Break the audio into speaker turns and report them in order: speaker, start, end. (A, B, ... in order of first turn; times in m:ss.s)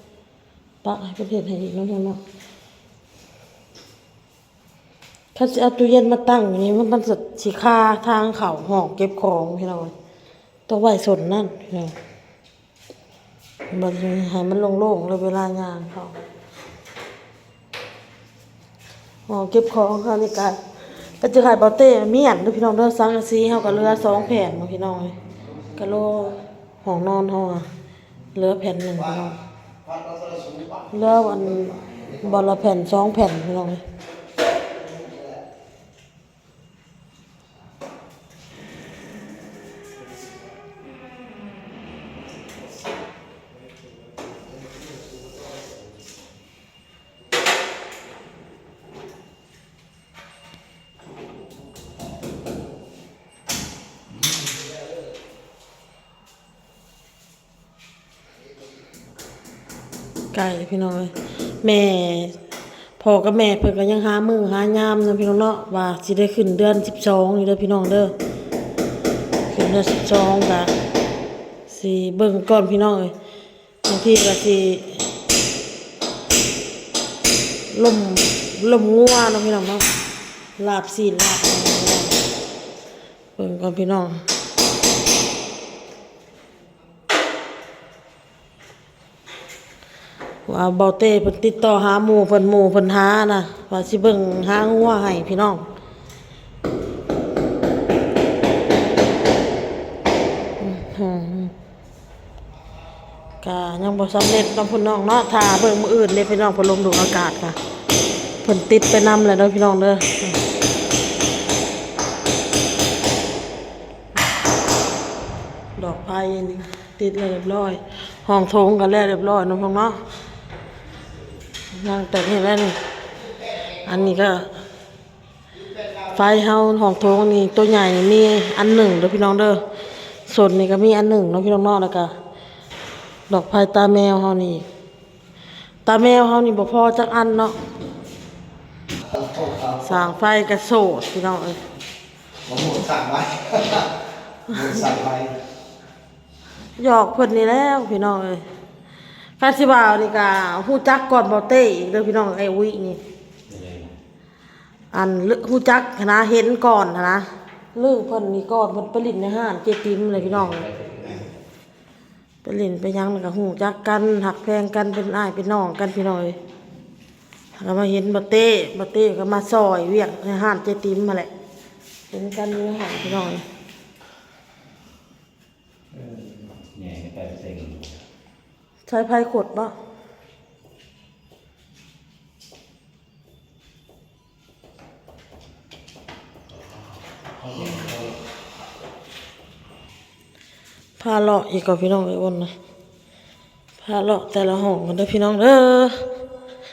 0:00.8-0:02.2 A
0:05.3-0:09.9 A
0:10.7-0:11.9 A
0:13.7-0:16.2 A
0:19.3-0:25.2 A
0:25.7-0:27.7 A
0:28.3-0:29.4 A
0:29.9-0:30.7 B
0:30.9-0:33.8 A
1:00.3-1:02.4 A
1:03.0-1:08.1 A
1:09.5-1:10.7 A
1:11.7-1:13.1 A
1:13.8-1:15.0 A
1:17.7-1:19.8 A
1:20.6-1:22.2 A
1:23.4-1:24.2 A
1:30.4-1:35.6 A
1:40.6-1:41.5 A
1:43.4-1:47.6 A
1:48.4-1:50.4 A
1:55.8-2:00.0 A
2:01.7-2:02.8 A
2:03.8-2:04.5 A
2:06.0-2:09.6 A
2:10.2-2:12.1 A
2:13.3-2:14.6 A
2:15.8-2:17.6 A
2:19.2-2:19.8 B
2:19.8-2:21.6 A
2:22.4-2:23.8 B
2:24.5-2:25.3 B
2:24.5-2:25.2 C
2:26.8-2:28.4 A
2:29.4-2:33.0 A
2:33.5-2:33.9 C
2:34.9-2:40.6 A
2:40.1-2:41.3 C
2:42.4-2:46.4 A
2:47.6-2:51.3 A
2:52.1-2:53.4 A
2:55.9-2:57.9 C
2:58.9-2:59.7 A
3:07.4-3:08.1 C
3:11.0-3:12.5 A
3:13.8-3:16.0 A